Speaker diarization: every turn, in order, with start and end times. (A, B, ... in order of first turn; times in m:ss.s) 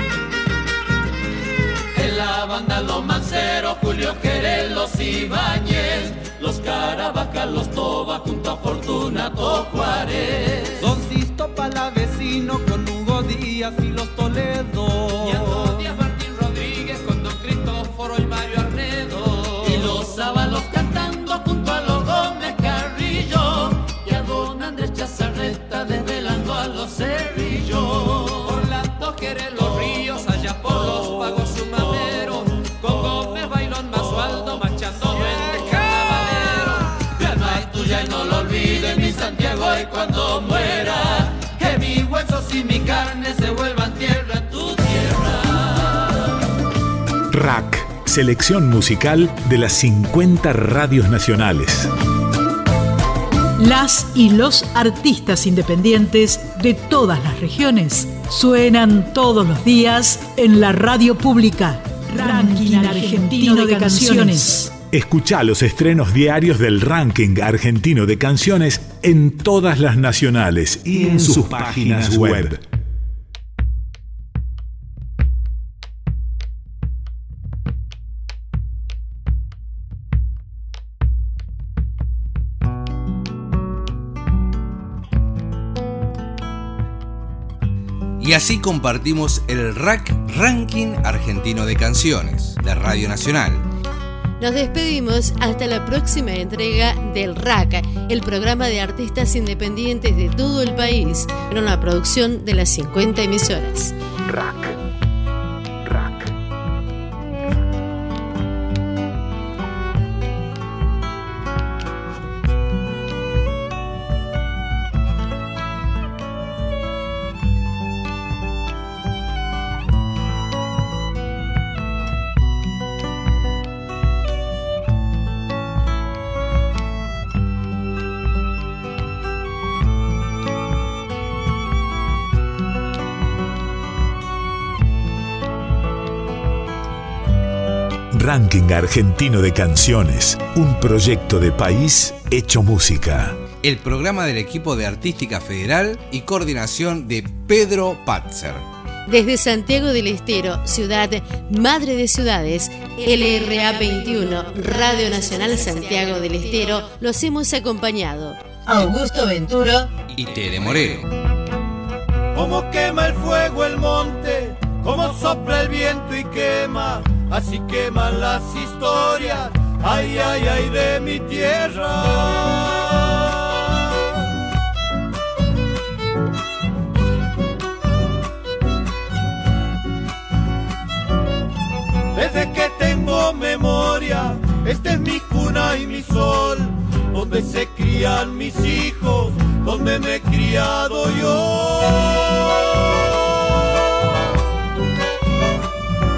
0:01.9-0:10.9 A
0:10.8-0:15.8 B
0:15.1-0:46.3 A
0:47.3-0:51.9 C
0:53.6-1:04.7 D
1:04.9-1:12.6 C
1:28.2-1:33.6 E
1:34.4-1:44.0 F
1:44.3-1:44.8 C
1:45.8-1:46.3 C
2:18.1-2:23.4 C
2:23.6-2:28.6 E
2:29.1-2:39.9 F
2:40.1-2:41.1 E
2:42.3-2:54.1 G
3:02.1-3:13.2 G